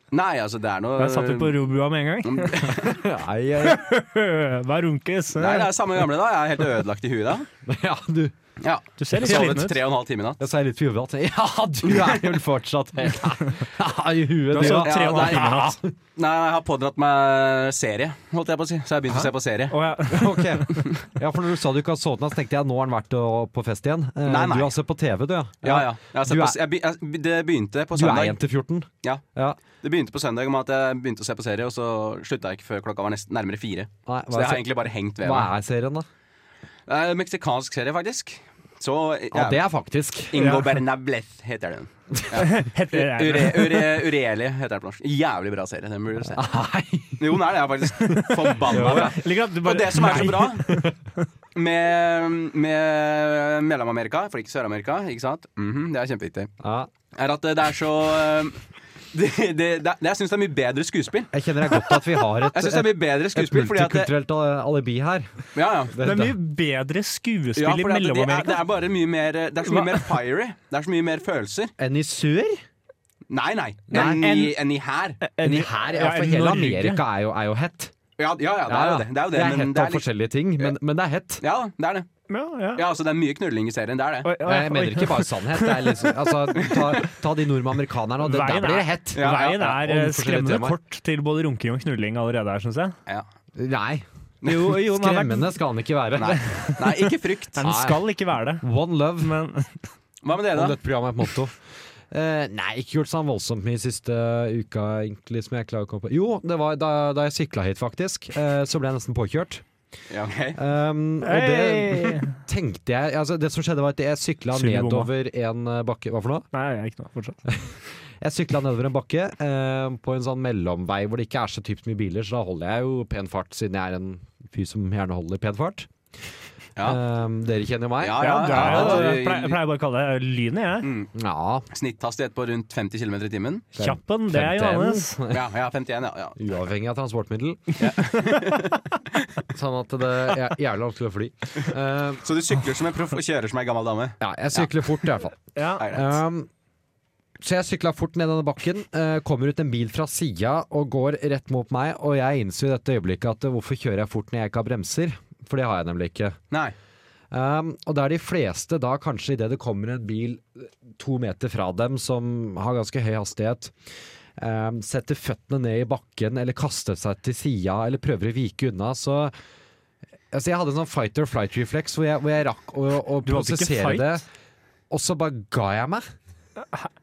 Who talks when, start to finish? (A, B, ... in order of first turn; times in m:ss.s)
0:00.1-0:01.6 A
0:01.0-0:02.9 B
0:02.2-0:03.0 A
0:02.7-0:03.8 C
0:03.6-0:05.7 B
0:05.4-0:07.5 A
0:07.6-0:08.3 C
0:08.6-0:10.4 A
0:09.0-0:09.8 B
0:09.2-0:09.6 C
0:10.4-0:15.9 C
0:11.8-0:12.3 A
0:14.5-0:15.8 B
0:14.5-0:19.8 A
0:19.1-0:20.9 B
0:20.1-0:26.6 C
0:24.2-0:24.7 A
0:25.6-0:28.4 A
0:27.9-0:29.6 C
0:29.8-0:35.5 A
0:34.0-0:34.6 C
0:35.2-0:36.1 C
0:36.9-0:39.6 A
0:39.3-0:40.5 C
0:40.3-0:46.4 A
0:40.4-0:40.7 B
0:42.3-0:44.0 B
0:46.3-0:47.4 C
0:47.2-0:50.7 A
0:48.0-0:50.8 B
0:48.7-0:49.2 C
0:50.0-0:50.9 C
0:51.5-0:56.5 A
0:56.6-0:56.9 C
0:57.1-0:58.6 A
0:59.1-1:01.3 A
1:01.3-1:06.4 C
1:02.4-1:04.1 A
1:05.5-1:05.9 A
1:06.0-1:08.6 B
1:07.6-1:11.7 A
1:09.7-1:10.0 B
1:11.8-1:12.6 C
1:13.3-1:15.2 A
1:13.9-1:14.3 C
1:13.9-1:14.5 B
1:15.2-1:17.0 B
1:15.4-1:17.9 C
1:18.2-1:20.1 A
1:18.6-1:21.4 C
1:21.4-1:22.1 A
1:22.3-1:22.9 B
1:22.8-1:24.3 A
1:24.2-1:26.7 B
1:24.4-1:30.8 C
1:26.6-1:26.9 A
1:28.2-1:33.0 B
1:29.2-1:29.8 A
1:33.6-1:36.6 C
1:34.4-1:35.5 B
1:36.1-1:37.6 A
1:36.5-1:38.6 B
1:37.6-1:38.0 C
1:38.6-1:39.4 C
1:39.2-1:39.8 B
1:40.2-1:40.8 A
1:40.5-1:41.5 C
1:42.1-1:49.6 C
1:50.1-1:50.6 A
1:50.5-1:56.5 C
1:51.2-1:52.4 B
1:54.5-1:55.1 B
1:56.5-1:57.4 B
1:57.4-2:05.9 C
2:06.8-2:09.1 C
2:08.0-2:09.6 A
2:08.2-2:10.9 B
2:10.8-2:11.1 A
2:11.1-2:11.6 C
2:11.7-2:13.7 A
2:13.7-2:15.4 C
2:13.8-2:15.2 B
2:15.3-2:16.4 A
2:16.4-2:17.7 C
2:17.8-2:19.3 A
2:18.1-2:18.5 B
2:19.5-2:22.2 C
2:22.2-2:24.8 A
2:24.2-2:26.5 C
2:25.5-2:25.9 B
2:25.8-2:26.2 A
2:27.4-2:36.4 C
2:37.3-2:43.8 C
2:44.4-2:49.3 C
2:50.3-2:54.2 C
2:53.2-2:54.2 B
2:54.9-2:56.0 C